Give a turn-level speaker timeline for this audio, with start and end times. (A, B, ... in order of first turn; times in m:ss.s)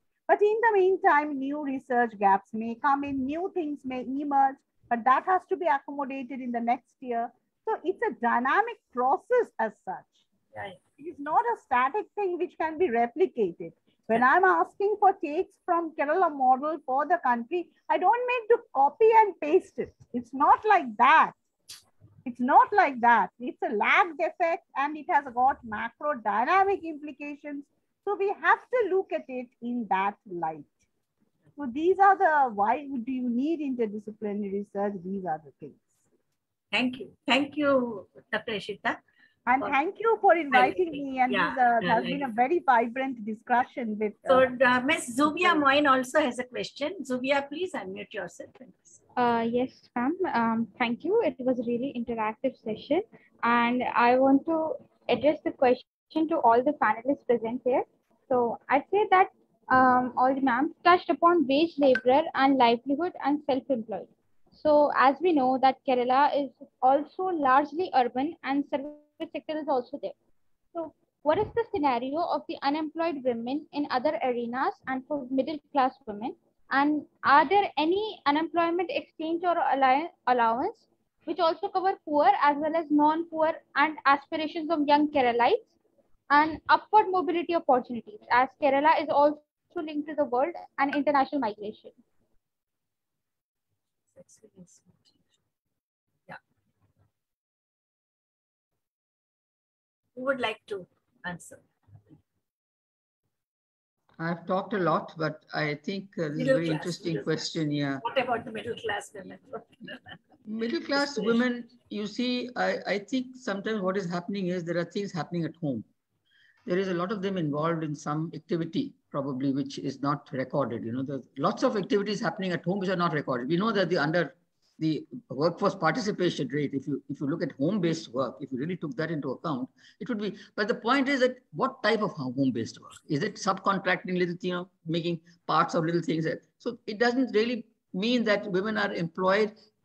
0:00.3-0:10.2 A
0:10.5-0:10.8 B
0:11.0-0:21.4 A
0:22.2-0:30.8 A
0:31.6-0:35.8 A
0:36.7-0:39.0 B
0:39.4-0:44.5 A
0:40.5-0:42.3 B
0:44.3-0:49.0 B
0:49.2-1:10.1 C
1:10.7-1:25.7 C
1:26.3-1:32.0 C
1:34.1-1:35.2 B
1:40.1-1:41.6 B
1:44.2-1:48.0 D
1:46.3-1:47.5 B
1:48.0-1:50.2 B
1:50.4-1:55.8 D
1:50.9-1:51.4 B
1:56.6-2:19.5 D